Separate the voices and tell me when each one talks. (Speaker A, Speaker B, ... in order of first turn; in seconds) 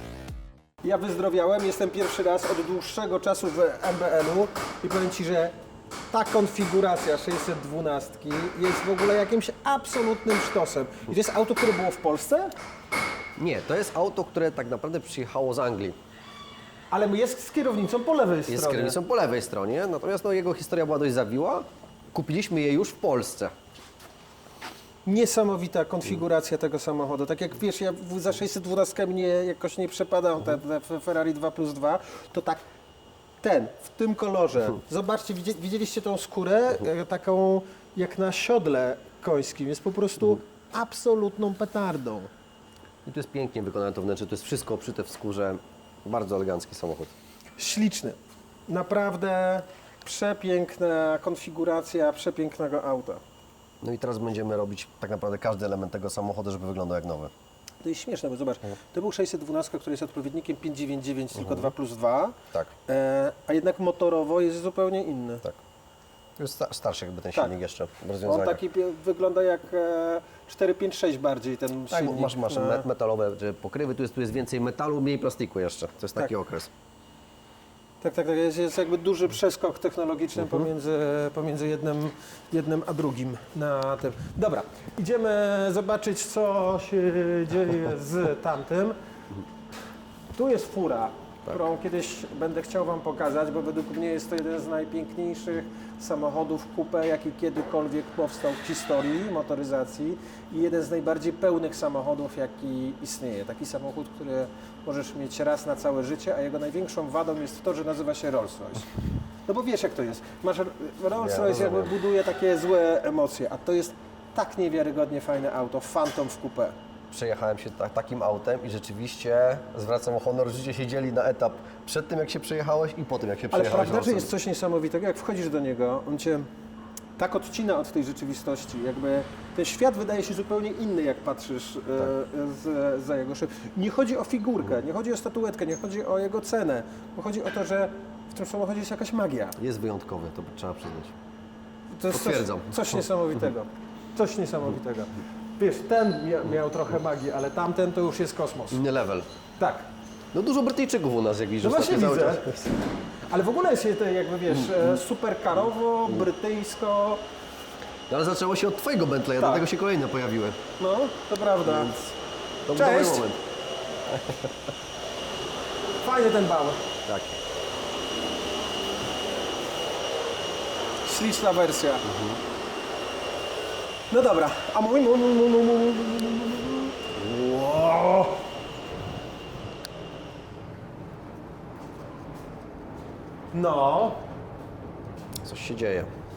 Speaker A: 0.8-5.5, 6.1-12.5, 16.9-19.0, 25.0-32.6, 33.4-42.3, 47.6-53.2, 57.8-65.4, 68.2-72.8, 78.0-89.0, 90.3-108.9, 109.5-116.8, 123.5-126.5, 127.2-139.6, 141.9-148.8, 149.6-149.9, 151.6-152.5, 153.2-157.2, 159.4-159.7, 160.8-162.0, 162.7-163.3, 166.0-166.8, 171.0-172.0, 174.1-178.4, 183.5-184.2
Speaker B: 13.4-16.0, 18.5-23.5, 43.0-47.1, 53.8-57.3, 61.4-61.7, 66.4-68.6, 71.9-76.7, 111.2-111.9, 117.1-124.3, 139.6-141.1, 142.1-143.0, 148.7-149.3, 150.3-152.7, 154.6-154.9, 158.1-160.6, 161.6-162.0, 162.7-163.4, 167.1-167.4, 172.0-172.4, 185.4-186.1